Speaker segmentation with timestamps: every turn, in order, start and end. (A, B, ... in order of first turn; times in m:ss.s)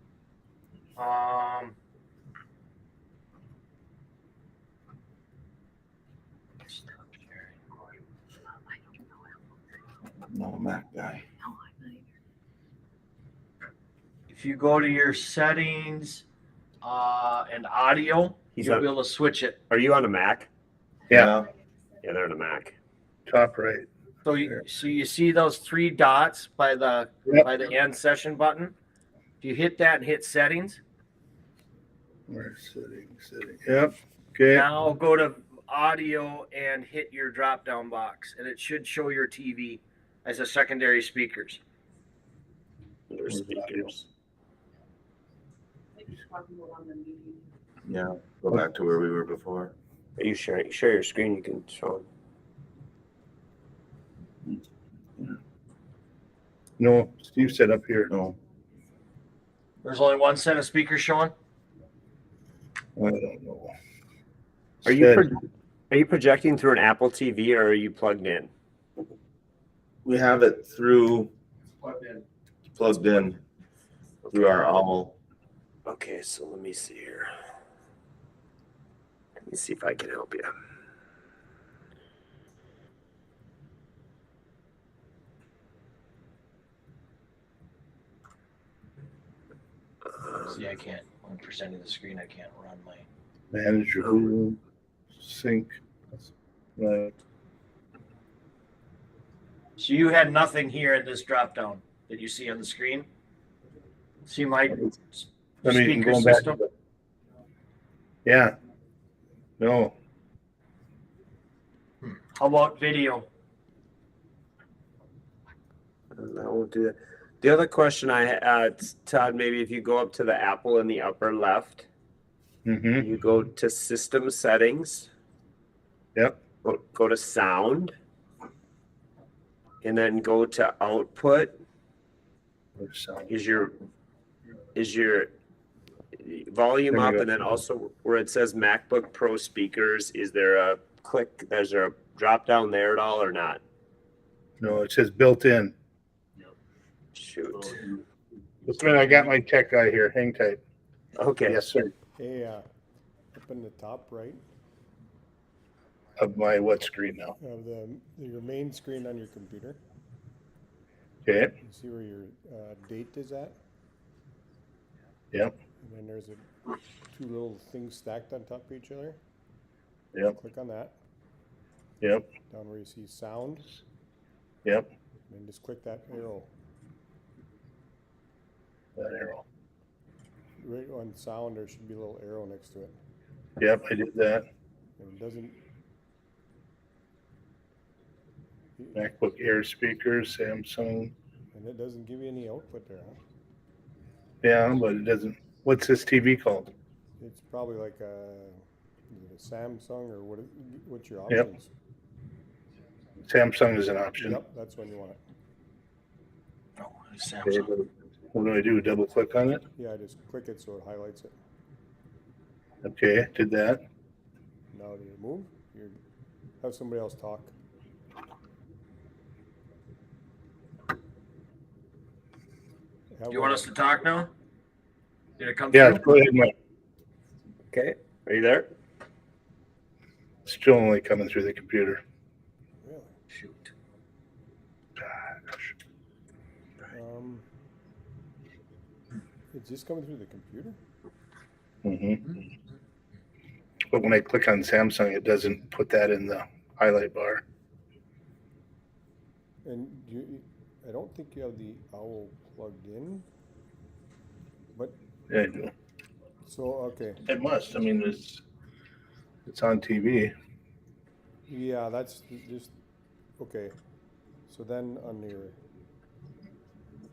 0:01.0-0:01.8 A
0:06.6-0:07.8 A
0:10.3-0:11.2 B
0:14.3-0:16.2 A
0:16.8-0:19.6 A
0:18.6-0:18.9 C
0:19.7-0:20.5 C
0:21.1-0:21.3 D
0:21.1-0:21.5 B
0:22.0-0:22.7 C
0:23.3-0:23.9 D
0:24.2-0:28.7 A
0:29.4-0:30.8 A
0:32.3-0:34.7 D
0:34.5-0:41.6 A
0:43.1-0:44.0 C
0:43.3-0:43.9 D
0:47.9-0:49.7 B
0:50.2-0:52.1 C
0:56.8-0:58.1 D
0:58.1-0:58.4 B
0:59.8-1:01.3 A
1:03.0-1:03.7 D
1:04.8-1:08.5 C
1:04.9-1:05.3 D
1:10.0-1:11.3 B
1:12.7-1:13.4 B
1:14.3-1:14.8 C
1:14.3-1:15.2 B
1:15.9-1:17.3 C
1:19.5-1:20.5 C
1:30.5-1:33.1 A
1:33.5-1:34.6 D
1:35.2-1:35.7 D
1:36.8-1:37.1 D
1:39.8-1:43.1 A
1:44.2-1:46.6 A
1:45.6-1:46.6 D
1:48.2-1:48.5 D
1:49.6-1:49.9 D
1:52.3-1:53.3 A
1:56.2-2:01.9 C
2:02.6-2:03.1 D
2:03.0-2:05.1 C
2:06.6-2:07.9 C
2:09.8-2:11.5 C
2:12.8-2:13.3 D
2:13.3-2:13.7 C
2:14.8-2:15.3 C
2:16.2-2:23.6 C
2:16.9-2:17.3 D
2:24.6-2:25.7 D
2:27.2-2:27.8 C
2:28.7-2:30.6 D
2:31.2-2:31.6 C
2:31.5-2:31.9 D
2:32.2-2:32.6 E
2:33.3-2:34.4 E
2:36.2-2:37.4 D
2:37.4-2:39.8 E
2:41.3-2:41.5 D
2:41.6-2:43.6 E
2:45.8-2:46.4 E
2:47.1-2:49.2 E
2:50.4-2:50.9 E
2:52.0-2:52.3 D
2:52.5-2:53.8 E
2:55.3-2:56.5 E
2:59.0-2:59.4 D
3:00.6-3:03.0 E
3:03.6-3:04.4 D
3:05.0-3:05.6 E
3:09.0-3:11.1 D
3:11.5-3:13.2 E
3:14.4-3:16.7 D
3:17.2-3:21.7 E
3:23.3-3:24.4 D
3:24.2-3:25.2 E
3:26.8-3:27.7 A
3:27.5-3:29.6 D
3:29.8-3:31.3 E
3:32.8-3:33.8 D
3:34.7-3:36.0 E
3:36.6-3:37.5 E
3:43.2-3:43.8 E
3:43.3-3:44.3 A
3:45.4-3:46.0 A
3:45.7-3:46.5 D
3:47.7-3:48.7 C
3:50.5-3:52.0 D
3:52.8-3:53.2 E
3:53.4-3:53.7 A
3:55.0-3:55.7 D
3:56.9-3:57.4 E
3:59.5-4:00.8 E
4:01.8-4:02.4 D
4:03.9-4:07.4 D
4:09.6-4:13.3 E
4:15.3-4:15.7 D
4:16.4-4:17.2 E
4:17.3-4:18.4 D
4:19.5-4:20.3 D
4:21.5-4:22.7 E
4:23.4-4:23.8 E
4:24.5-4:25.6 E